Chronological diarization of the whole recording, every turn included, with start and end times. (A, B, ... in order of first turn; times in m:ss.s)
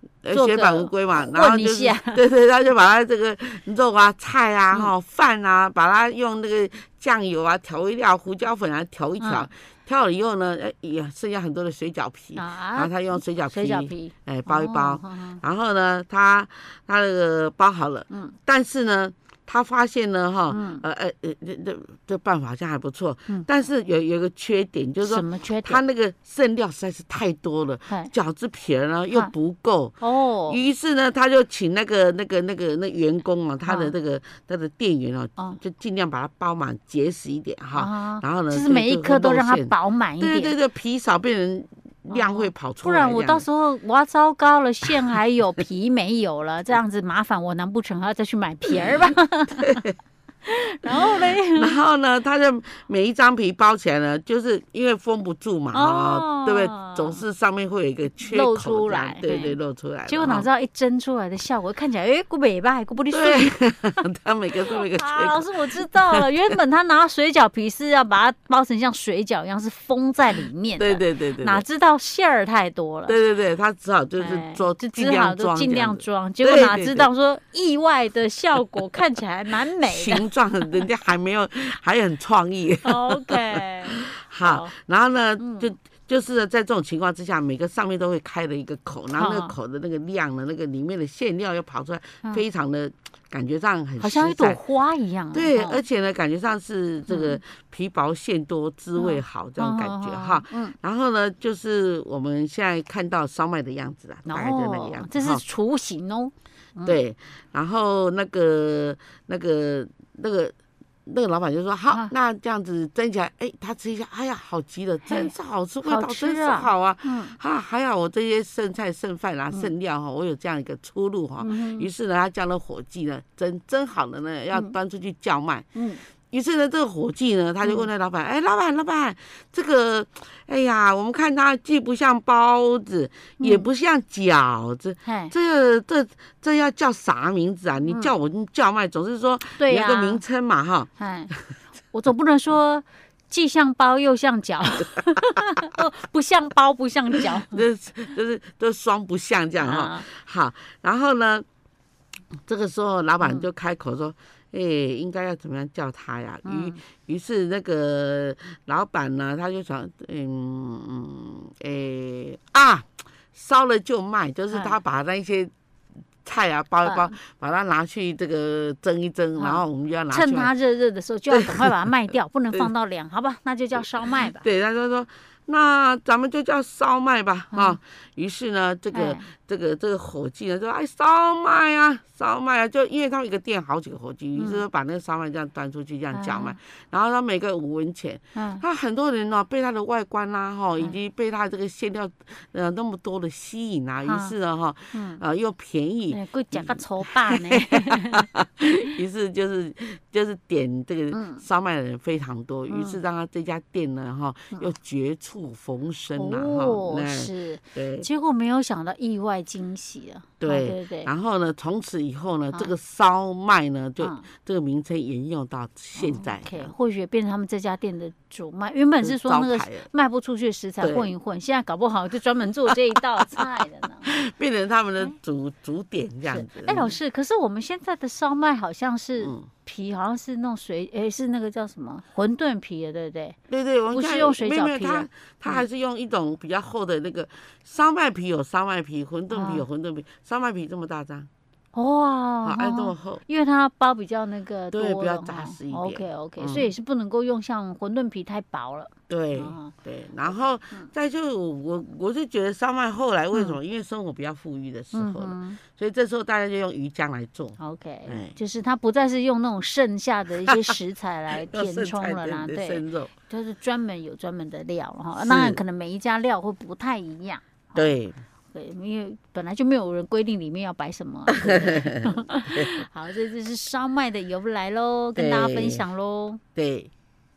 0:00.2-0:43.4 A
0:00.3-0:02.2 B
0:09.2-0:09.5 B
0:12.4-0:15.4 B
0:18.1-0:18.4 B
0:20.5-0:20.8 B
0:25.0-0:25.8 B
0:30.0-0:30.6 B
0:33.6-0:33.9 B
0:37.7-0:40.5 B
0:42.1-0:49.8 B
0:49.6-0:49.9 A
0:50.4-0:51.8 B
0:50.9-1:00.5 A
0:55.7-0:57.2 B
0:58.2-1:03.6 B
1:03.1-1:06.6 A
1:04.7-1:13.2 B
1:10.8-1:11.6 A
1:13.1-1:17.1 A
1:14.2-1:20.8 B
1:19.8-1:34.6 A
1:22.8-1:24.7 B
1:25.4-1:25.7 B
1:29.1-1:29.5 B
1:34.0-1:35.8 B
1:35.3-1:45.4 A
1:37.1-1:37.4 B
1:39.0-1:40.7 B
1:44.3-1:47.0 B
1:46.8-1:50.5 A
1:51.0-2:05.7 A
1:55.0-1:57.3 B
2:01.4-2:01.9 B
2:05.7-2:06.0 B
2:06.3-2:21.5 A
2:07.6-2:07.9 B
2:13.4-2:13.7 B
2:15.0-2:15.3 B
2:19.6-2:20.2 B
2:21.0-2:21.3 B
2:21.9-2:27.6 B
2:27.4-2:31.4 A
2:29.6-2:30.0 B
2:32.4-2:45.5 A
2:33.2-2:33.5 B
2:36.4-2:36.8 B
2:44.5-2:44.8 B
2:46.2-2:50.5 A
2:46.8-2:47.1 B
2:49.4-2:54.4 B
2:51.3-2:51.9 A
2:54.0-3:28.1 A
2:58.9-2:59.2 B
3:04.4-3:04.6 B
3:06.1-3:06.6 B
3:08.3-3:08.6 B
3:14.0-3:14.3 B
3:14.9-3:15.2 B
3:16.1-3:18.2 B
3:21.1-3:21.4 B
3:22.7-3:23.0 B
3:26.2-3:31.1 B
3:30.4-3:36.7 A
3:34.0-3:34.2 B
3:36.0-3:44.1 B
3:39.0-3:39.9 A
3:40.8-3:41.1 A
3:42.7-3:46.9 A
3:46.3-3:53.4 B
3:49.2-3:49.5 A
3:53.5-4:01.3 A
3:53.9-3:55.6 B
3:59.3-3:59.6 B
4:01.7-4:09.7 B
4:02.4-4:03.2 A
4:04.7-4:06.7 A
4:09.1-4:18.4 A
4:13.3-4:13.6 B
4:14.9-4:15.6 B
4:17.6-4:27.9 B
4:20.5-4:20.7 A
4:21.3-4:23.1 A
4:25.2-4:25.6 A
4:27.8-4:28.2 A
4:28.5-4:36.4 B
4:31.3-4:32.8 A
4:35.2-4:35.8 A
4:36.5-4:36.9 A